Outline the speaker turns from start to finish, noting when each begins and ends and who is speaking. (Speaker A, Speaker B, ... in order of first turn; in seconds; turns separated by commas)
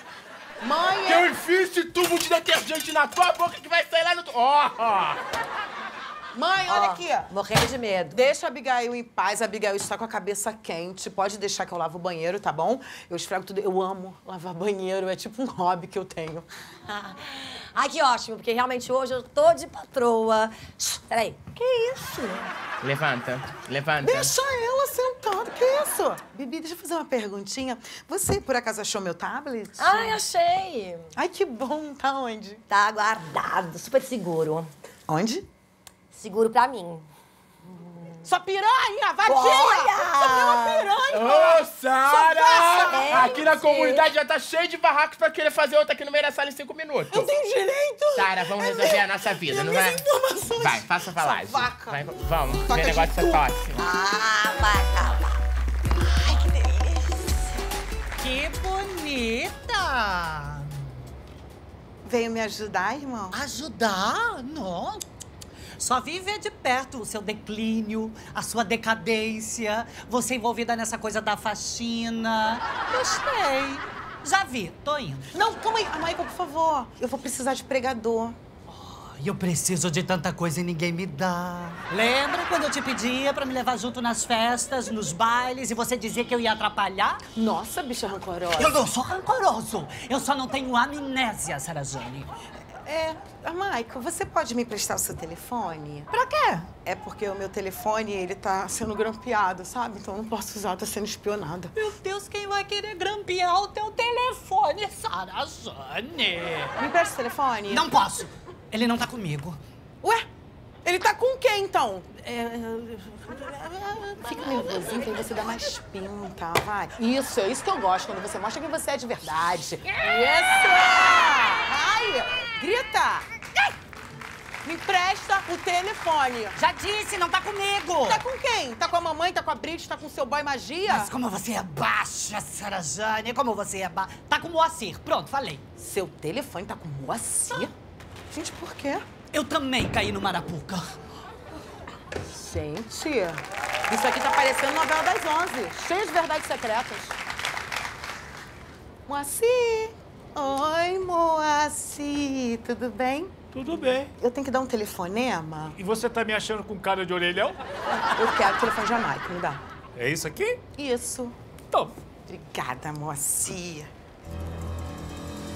Speaker A: 0.6-1.3, Speaker B: 1.1-5.2, Speaker A: 6.3-7.3, Speaker C: 6.7-8.3, Speaker A: 8.1-16.5, Speaker C: 16.9-22.5, Speaker B: 22.8-24.3, Speaker A: 24.0-30.2, Speaker C: 29.8-31.1, Speaker A: 31.1-32.6, Speaker C: 32.7-34.7, Speaker A: 35.1-35.5, Speaker C: 36.1-37.1, Speaker C: 37.7-38.2, Speaker A: 38.2-43.2, Speaker C: 39.3-40.9, Speaker B: 41.1-47.3, Speaker C: 42.9-44.1, Speaker A: 47.1-53.5, Speaker B: 48.2-50.0, Speaker B: 50.6-53.8, Speaker C: 53.8-55.4, Speaker C: 56.2-57.4, Speaker D: 58.2-60.8, Speaker A: 62.0-63.4, Speaker D: 63.3-65.0, Speaker D: 65.8-75.3, Speaker A: 75.3-78.4, Speaker D: 78.7-87.2, Speaker A: 87.3-88.8, Speaker D: 88.5-92.3, Speaker A: 92.8-96.1, Speaker D: 96.1-96.7, Speaker A: 96.8-101.7, Speaker D: 101.8-106.8, Speaker A: 106.8-107.9, Speaker D: 107.7-109.6, Speaker A: 110.8-123.3, Speaker A: 124.6-126.6, Speaker D: 126.6-128.2, Speaker A: 128.0-131.1, Speaker D: 130.9-135.6, Speaker A: 135.8-137.7, Speaker A: 138.3-139.1, Speaker D: 139.3-140.9, Speaker A: 142.3-147.2, Speaker A: 149.1-153.3, Speaker E: 153.5-154.1, Speaker A: 154.2-155.8, Speaker E: 155.8-157.6, Speaker A: 158.1-159.6, Speaker E: 160.0-160.6, Speaker A: 160.8-161.4, Speaker E: 161.7-162.0, Speaker A: 162.3-163.9